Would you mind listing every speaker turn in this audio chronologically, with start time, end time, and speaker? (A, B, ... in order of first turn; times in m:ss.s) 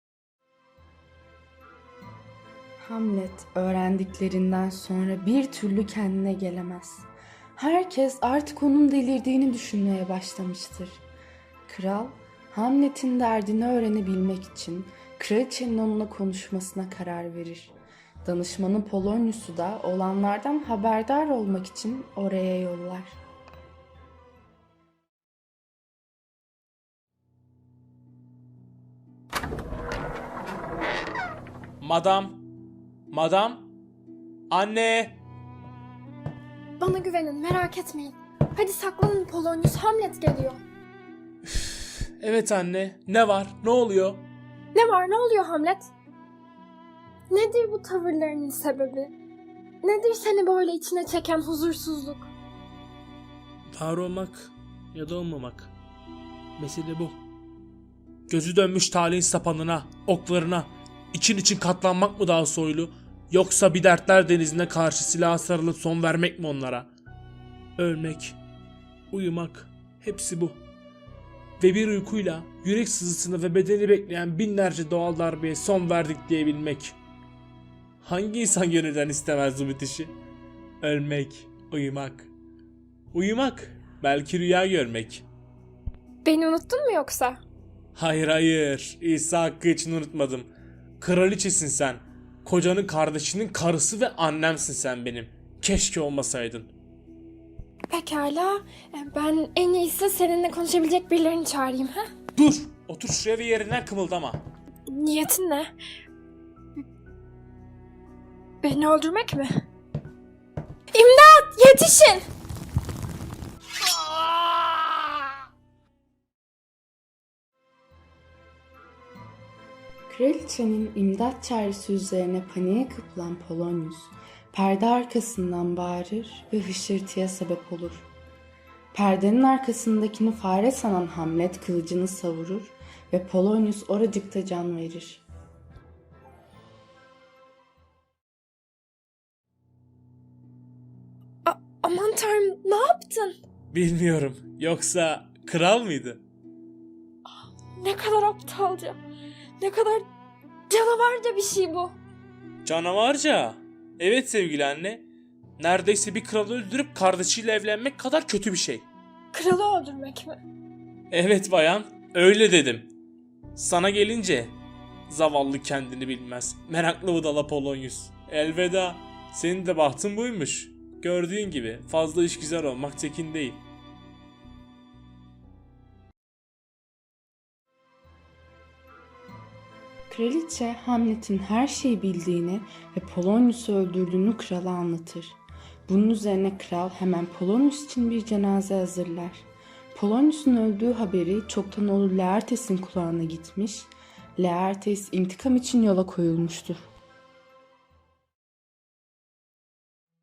0:02.8-0:11.0 A
0:11.7-0:23.2 A
0:31.8-0:32.5 B
0:33.1-0:33.7 B
0:34.5-0:35.2 B
0:36.8-0:40.6 C
0:41.5-0:44.3 B
0:44.7-0:45.9 C
0:47.3-0:49.1 C
0:49.8-0:52.3 C
0:53.7-0:55.7 B
0:56.6-0:57.2 B
0:58.3-1:06.9 B
1:07.8-1:08.4 B
1:09.1-1:10.6 B
1:11.6-1:17.0 B
1:18.0-1:20.1 B
1:20.8-1:22.3 B
1:23.1-1:25.2 B
1:26.2-1:27.4 C
1:28.0-1:30.5 B
1:31.0-1:36.7 B
1:37.9-1:42.1 C
1:42.3-1:44.4 B
1:44.9-1:45.7 C
1:48.6-1:49.6 C
1:50.9-1:52.3 C
2:00.1-2:08.1 A
2:08.9-2:15.2 A
2:21.4-2:23.4 C
2:23.7-2:26.2 B
2:27.8-2:29.0 C
2:29.6-2:30.1 C
2:30.7-2:32.0 C
2:32.6-2:35.0 B
2:35.6-2:38.9 B
2:39.3-2:40.4 C
2:41.1-2:42.9 B
2:43.6-2:44.6 B
2:45.1-2:53.6 B
3:00.1-3:16.8 A